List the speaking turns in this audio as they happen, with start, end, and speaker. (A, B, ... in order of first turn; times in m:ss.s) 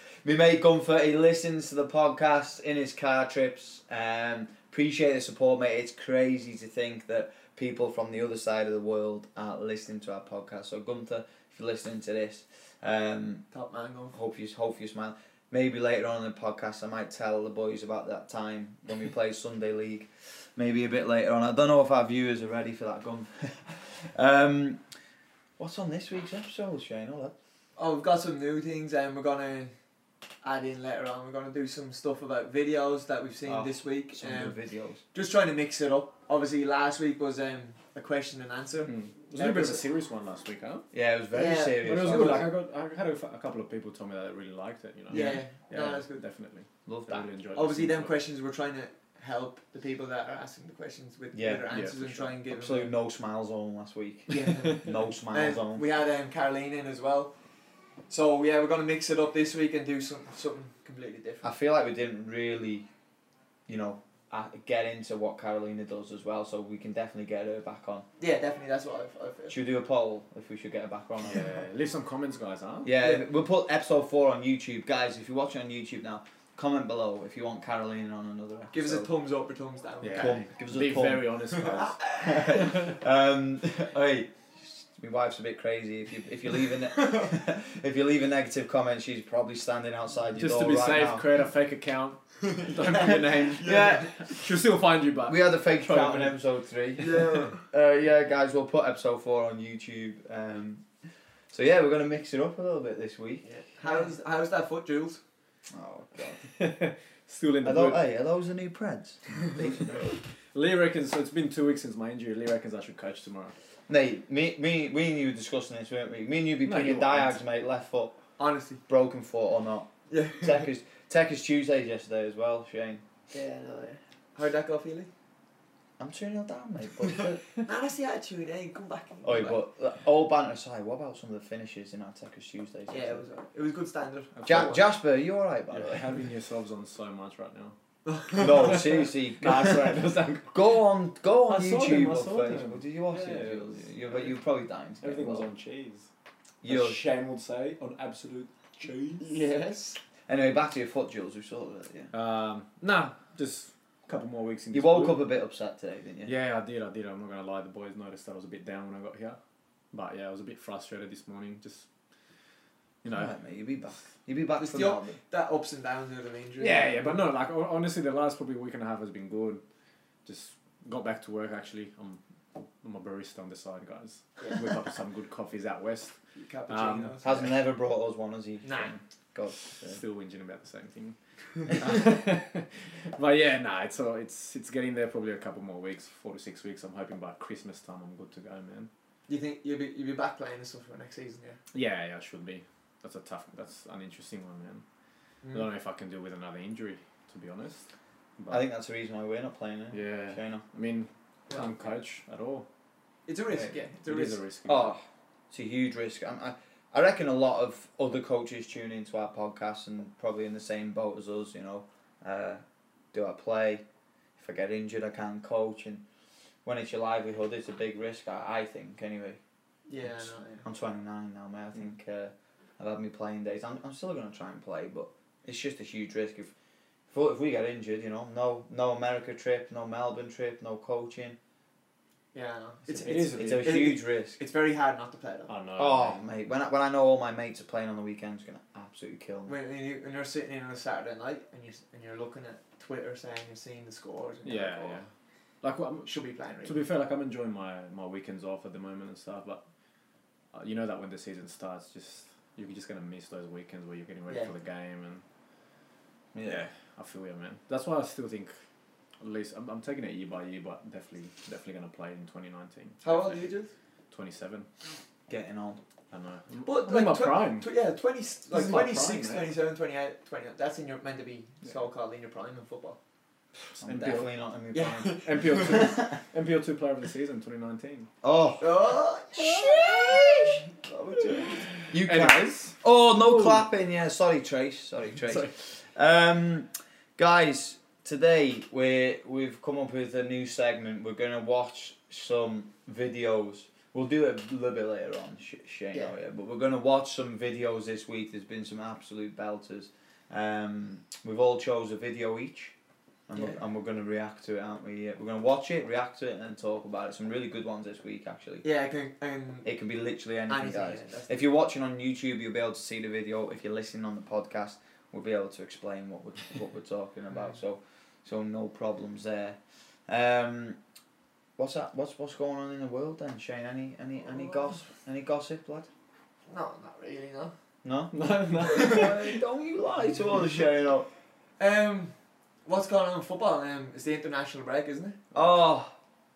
0:00.2-0:13.4 A
0:13.5-0:14.2 B
0:14.1-0:24.8 A
0:25.6-0:27.3 A
0:27.8-0:29.7 B
0:30.4-0:39.8 B
0:33.5-0:35.0 A
0:38.8-0:40.9 C
0:40.9-0:42.5 A
0:41.3-0:42.5 B
0:41.8-0:48.2 C
0:45.1-0:46.2 B
0:45.1-0:45.4 A
0:46.9-0:47.3 A
0:47.6-0:52.9 B
0:51.3-0:55.8 A
0:51.7-0:52.1 C
0:54.3-0:57.3 B
0:58.1-1:01.5 B
1:01.4-1:02.9 A
1:03.7-1:08.1 A
1:08.2-1:09.6 B
1:09.5-1:11.4 A
1:11.2-1:13.0 C
1:12.8-1:19.1 A
1:18.7-1:20.4 B
1:20.0-1:22.9 C
1:20.2-1:21.3 A
1:21.6-1:22.4 B
1:22.2-1:31.3 A
1:27.0-1:27.3 B
1:30.4-1:36.4 C
1:32.8-1:34.2 B
1:33.6-1:34.1 A
1:35.3-1:40.9 A
1:37.0-1:37.6 B
1:41.5-1:44.0 A
1:43.4-1:45.2 B
1:45.7-1:46.4 A
1:46.6-1:48.0 C
1:47.6-1:50.1 A
1:50.5-1:53.6 C
1:53.9-1:58.2 A
1:56.6-1:57.4 C
1:58.4-1:58.8 B
1:58.9-2:03.0 A
2:00.1-2:00.6 B
2:03.3-2:05.1 B
2:06.0-2:07.4 A
2:07.6-2:09.6 B
2:09.2-2:13.2 A
2:12.9-2:14.8 B
2:14.4-2:14.8 C
2:14.5-2:16.1 A
2:15.7-2:17.8 C
2:18.1-2:18.8 B
2:18.4-2:25.5 A
2:18.5-2:20.6 C
2:21.5-2:24.4 C
2:25.0-2:26.1 C
2:26.6-2:27.0 A
2:26.6-2:29.4 C
2:29.2-2:30.0 B
2:30.3-2:32.1 A
2:32.1-2:35.2 C
2:34.7-2:36.3 A
2:36.2-2:39.4 C
2:39.9-2:41.9 C
2:43.0-2:43.4 C
2:43.1-2:45.2 A
2:44.6-2:47.2 B
2:46.6-2:49.6 C
2:50.2-2:57.3 C
2:56.4-2:57.5 B
2:57.2-3:00.0 A
2:58.6-2:59.0 B
2:59.7-3:08.9 C
3:09.3-3:11.6 B
3:11.7-3:14.8 C
3:15.4-3:15.7 B
3:15.5-3:18.6 C
3:18.5-3:20.6 A
3:19.9-3:22.7 C
3:21.5-3:21.8 B
3:23.3-3:24.4 B
3:24.0-3:25.0 C
3:24.7-3:33.8 A
3:34.4-3:36.0 A
3:36.6-3:39.4 A
3:39.9-3:40.7 B
3:40.0-3:46.5 A
3:47.1-3:51.4 A
3:52.3-3:55.5 B
3:52.9-3:54.0 C
3:53.4-3:54.4 A
3:55.5-3:56.2 C
3:55.8-3:59.6 A
3:59.5-4:05.0 B
4:04.4-4:05.1 C
4:05.6-4:09.6 C
4:06.0-4:06.8 B
4:10.5-4:15.2 C
4:16.3-4:16.7 A
4:16.4-4:18.6 C
4:19.2-4:23.5 C
4:23.0-4:23.7 B
4:24.1-4:24.7 C
4:25.3-4:25.8 A
4:26.1-4:27.7 C
4:26.6-4:33.0 B
4:28.5-4:29.5 C
4:33.8-4:34.3 C
4:33.8-4:36.2 A
4:34.7-4:35.9 B
4:35.2-4:38.1 C
4:38.2-4:38.8 A
4:38.6-4:41.7 B
4:39.3-4:40.6 A
4:41.5-4:43.7 C
4:41.9-5:02.8 A
4:45.2-4:45.5 C
5:03.3-5:08.6 A
5:03.4-5:03.6 B
5:08.6-5:09.7 B
5:09.6-5:20.8 A
5:10.5-5:11.4 B
5:21.6-5:25.9 A
5:26.5-5:27.5 B
5:27.8-5:31.1 A
5:28.1-5:29.4 C
5:28.7-5:29.0 B
5:31.6-5:32.2 B
5:32.7-5:35.2 B
5:35.3-5:35.9 A